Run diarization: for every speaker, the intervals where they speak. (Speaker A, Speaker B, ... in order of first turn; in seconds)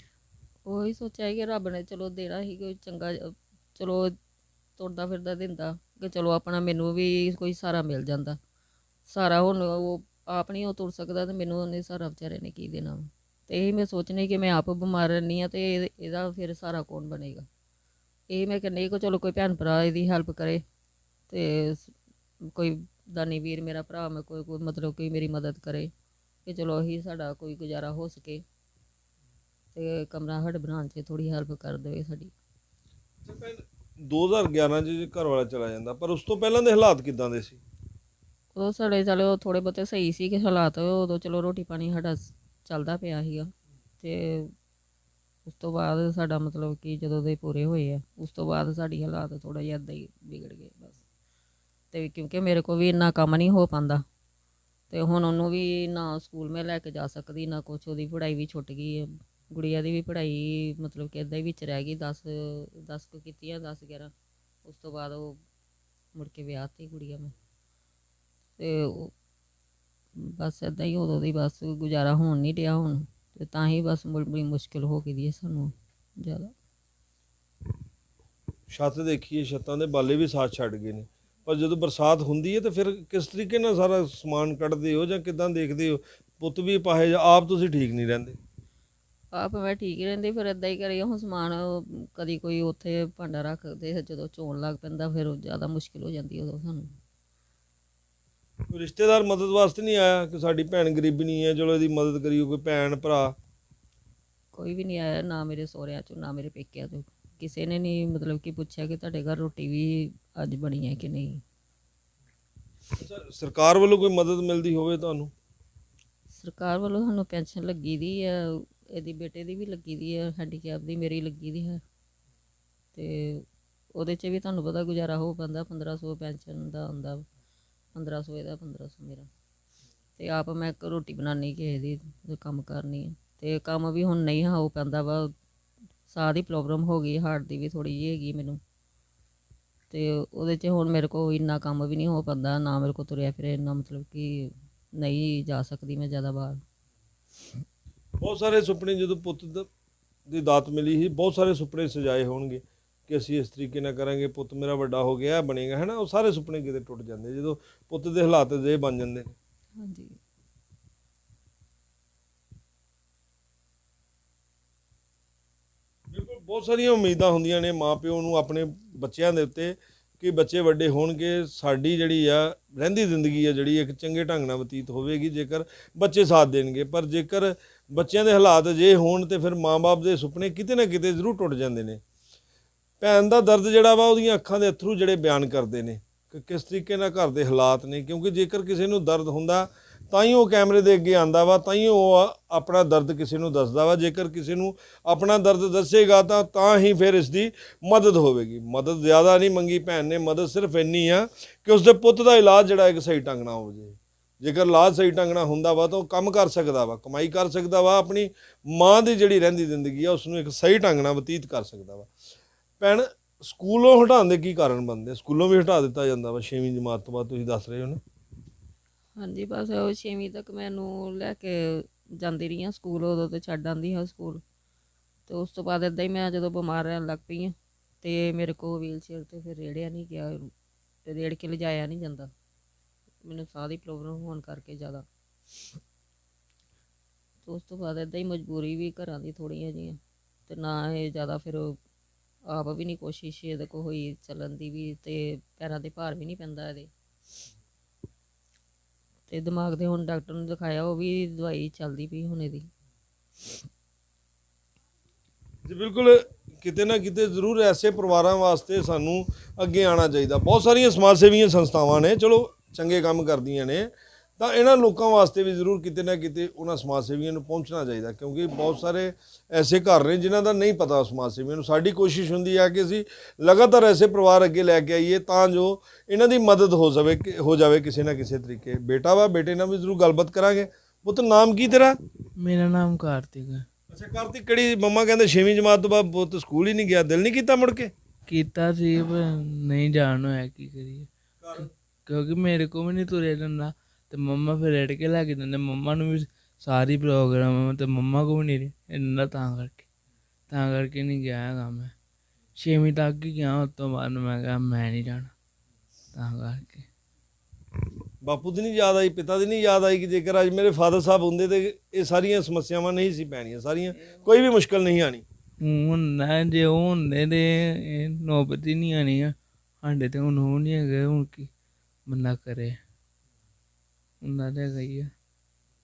Speaker A: 0.7-4.2, 4.8-8.4, 9.1-17.5, 18.3-20.6, 21.3-21.9, 22.5-25.9, 26.5-28.4, 29.7-32.3, 38.5-44.5, 45.4-51.0, 51.9-54.0, 54.9-64.1, 64.7-65.4, 66.1-67.3, 68.6-69.1, 70.2-76.5, 89.3-97.0, 104.5-111.4, 116.3-121.8, 122.9-127.2, 127.9-129.3, 130.2-135.3, 136.1-138.6, 139.9-146.6, 159.8-160.2, 219.1-224.4, 225.3-230.5, 231.1-232.3, 233.2-235.1, 237.4-241.8, 242.5-246.9, 249.3-252.7
Speaker B: 33.2-37.6, 78.7-88.4, 98.7-103.3, 112.9-115.3, 148.2-149.7, 150.3-159.3, 166.1-182.0, 183.0-212.1, 212.8-218.0, 255.6-282.0, 283.9-287.9, 291.4-291.7, 308.2-315.2
Speaker C: 282.4-283.6, 288.3-291.1, 291.6-299.9, 300.5-301.9, 302.6-305.3, 306.1-306.9, 315.6-321.5, 322.1-322.7, 324.2-325.1